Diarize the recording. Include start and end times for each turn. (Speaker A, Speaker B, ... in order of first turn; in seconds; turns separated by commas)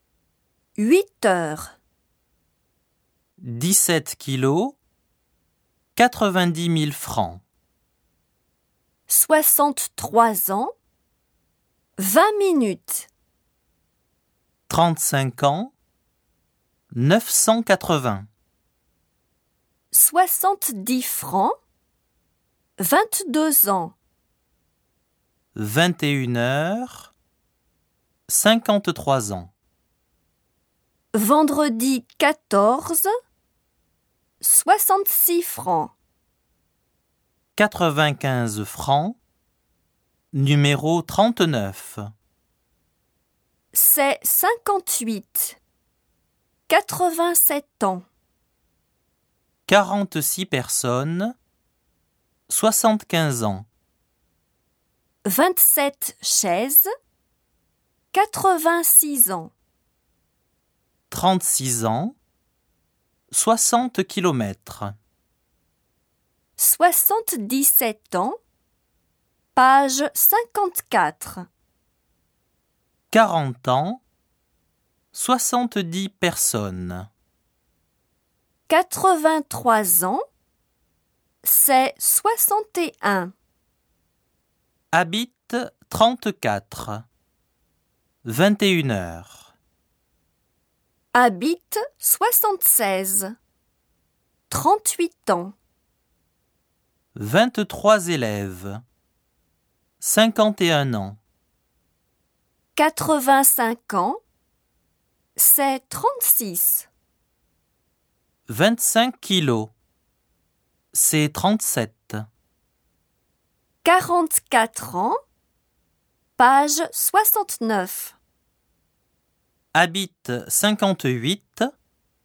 Speaker A: 0.8-1.7, Speaker B: 3.4-4.8, Speaker B: 6.0-7.4, Speaker A: 9.1-10.7, Speaker A: 12.0-13.1, Speaker B: 14.7-15.7, Speaker B: 16.9-18.3, Speaker A: 19.9-21.5, Speaker A: 22.8-23.9, Speaker B: 25.5-27.1, Speaker B: 28.3-29.5, Speaker A: 31.1-33.1, Speaker A: 34.4-35.9, Speaker B: 37.6-39.2, Speaker B: 40.3-42.0, Speaker A: 43.7-45.6, Speaker A: 46.7-48.0, Speaker B: 49.7-51.3, Speaker B: 52.5-53.6, Speaker A: 55.2-56.9, Speaker A: 58.1-59.5, Speaker B: 61.1-62.1, Speaker B: 63.3-64.9, Speaker A: 66.6-68.4, Speaker A: 69.5-71.5, Speaker B: 73.1-74.0, Speaker B: 75.1-77.1, Speaker A: 78.7-80.2, Speaker A: 81.4-83.3, Speaker B: 84.9-87.0, Speaker B: 88.2-89.5, Speaker A: 91.1-93.3, Speaker A: 94.5-95.5, Speaker B: 97.1-98.8, Speaker B: 100.0-101.2, Speaker A: 102.8-104.2, Speaker A: 105.4-106.9, Speaker B: 108.5-109.7, Speaker B: 110.9-112.3, Speaker A: 113.8-115.2, Speaker A: 116.4-118.2, Speaker B: 119.7-121.7